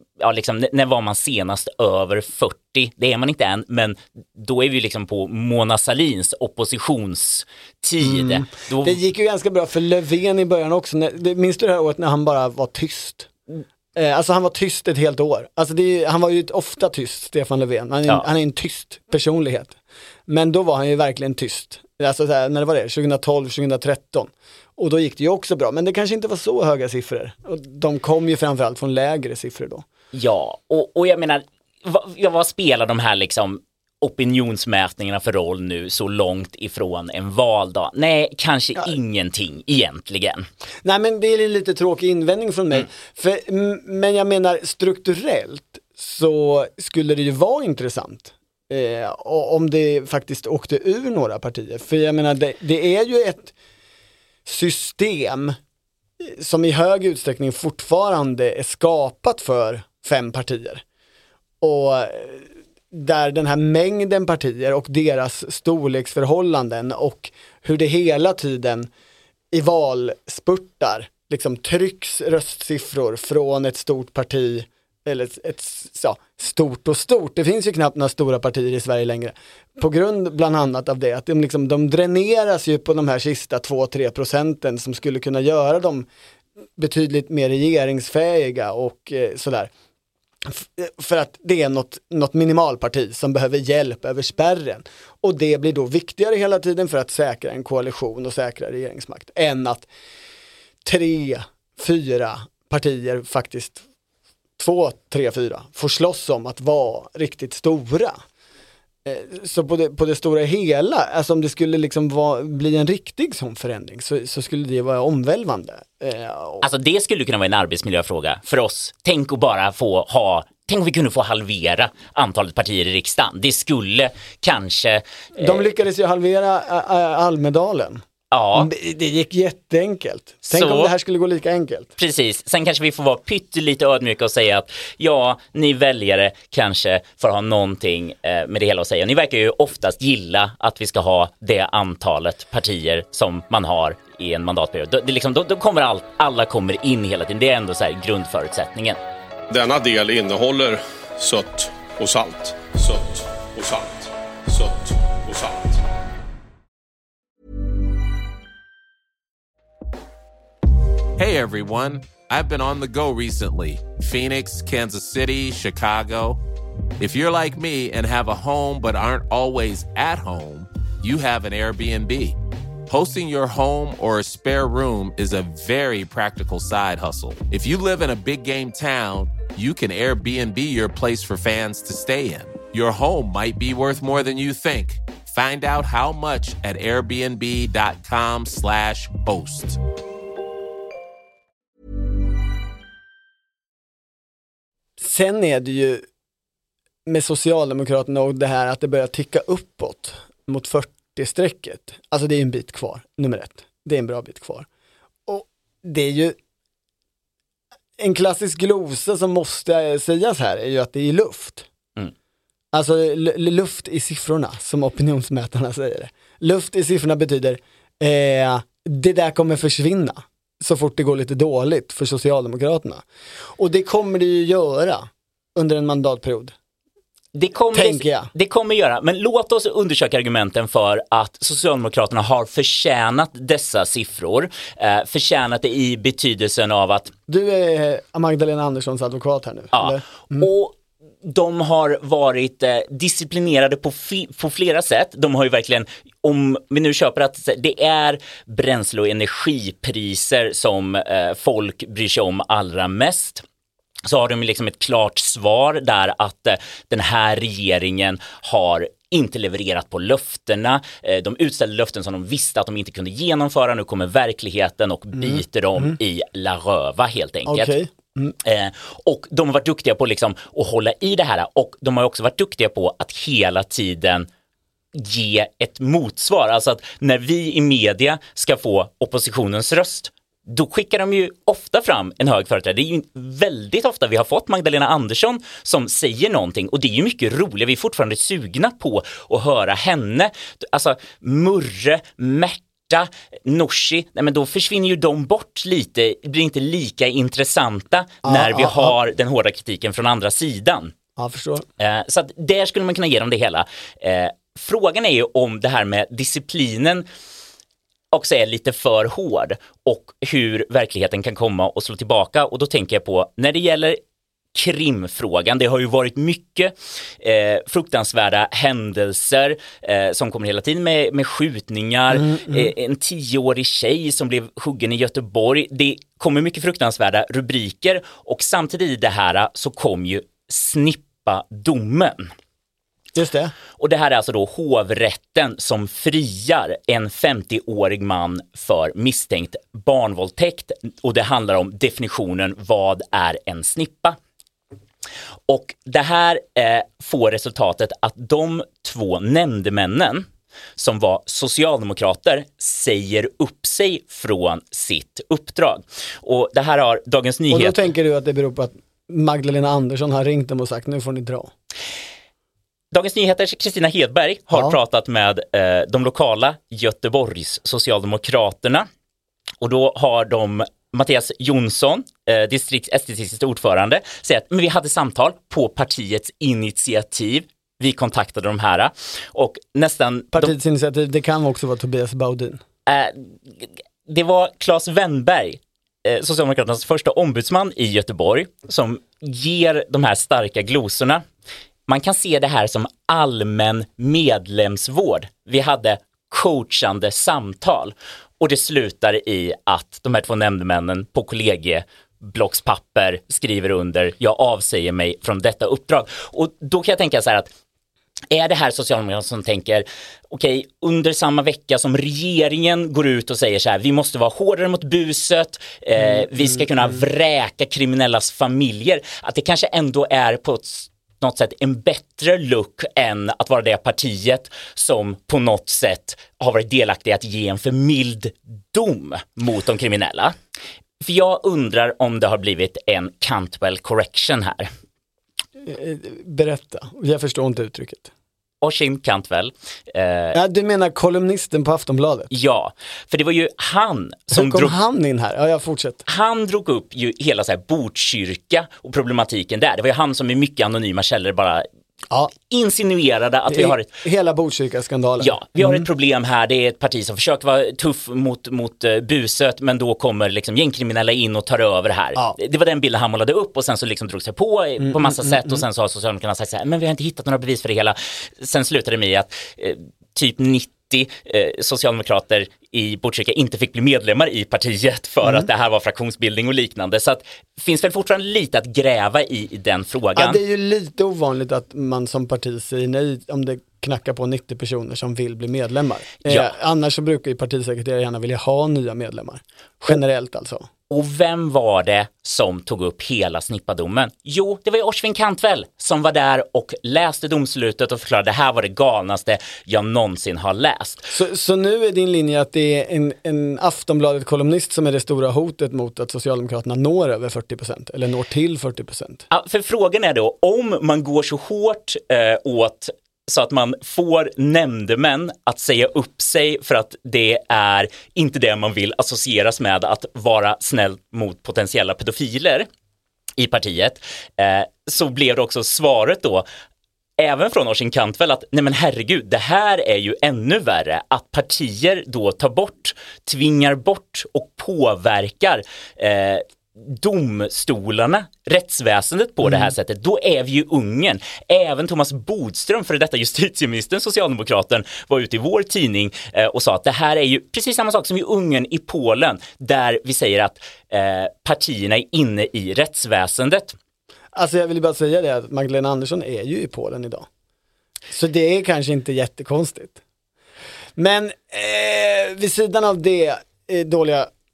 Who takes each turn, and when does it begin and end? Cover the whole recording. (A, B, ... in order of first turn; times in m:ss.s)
0:00.2-0:09.0 A
0:08.0-0:13.3 B
0:13.9-0:19.8 B
0:20.3-0:29.8 B
0:30.1-0:40.5 A
0:40.8-0:53.5 B
0:54.4-0:55.6 B
0:56.2-1:00.8 B
1:01.6-1:08.9 B
1:09.5-1:26.1 B
1:26.8-1:29.7 B
1:30.5-1:39.9 B
1:40.8-1:43.8 B
1:44.6-1:48.2 B
1:49.0-1:56.6 B
1:56.6-2:05.6 A
2:05.4-2:08.0 B
2:08.3-2:08.7 A
2:08.5-2:11.9 B
2:10.4-2:10.9 A
2:12.0-2:29.0 A
2:29.5-2:35.8 C
2:41.2-2:46.4 D
2:47.0-2:52.4 D
2:52.9-3:09.8 D
3:15.0-3:16.0 B
3:17.0-3:24.7 B
3:25.3-3:26.3 B
3:28.0-3:31.7 B
3:32.7-3:43.0 B
3:43.6-3:46.5 B
3:47.3-3:57.1 A
3:47.7-3:48.3 B
3:57.3-4:00.5 B
3:59.7-4:13.4 A
4:14.0-4:27.8 A
4:25.1-4:26.0 B
4:27.4-4:28.3 B
4:28.4-4:34.3 A
4:34.9-5:00.9 A
4:58.2-4:58.9 B
5:01.2-5:01.6 B
5:01.8-5:07.1 A
5:08.1-5:14.0 A
5:14.5-5:32.3 A
5:22.1-5:22.7 B
5:33.1-5:33.5 B
5:33.8-5:44.2 A
5:45.5-5:57.9 A
5:57.5-6:01.5 B
6:02.9-6:08.9 A
6:04.5-6:04.8 B
6:09.6-6:20.5 A
6:20.3-6:22.6 B
6:22.9-6:31.2 A
6:31.9-6:47.5 A
6:48.3-7:10.3 A
7:11.0-7:14.7 A
7:15.6-7:18.1 B
7:18.6-7:20.4 A
7:20.3-7:22.3 B
7:22.3-7:24.8 A
7:24.3-7:26.0 B
7:26.1-7:31.7 A
7:32.4-7:33.9 A
7:33.5-7:35.9 B
7:35.2-8:00.4 A
7:44.8-7:45.6 B
7:55.2-7:55.5 B
8:00.2-8:10.7 B
8:06.2-8:06.5 A
8:10.9-8:21.1 A
8:21.1-8:29.2 B
8:29.3-8:42.7 A
8:43.4-8:46.5 A
8:47.2-9:13.8 A
8:59.4-8:59.7 B
9:14.3-9:17.3 B
9:18.1-9:20.0 B
9:21.0-9:24.3 B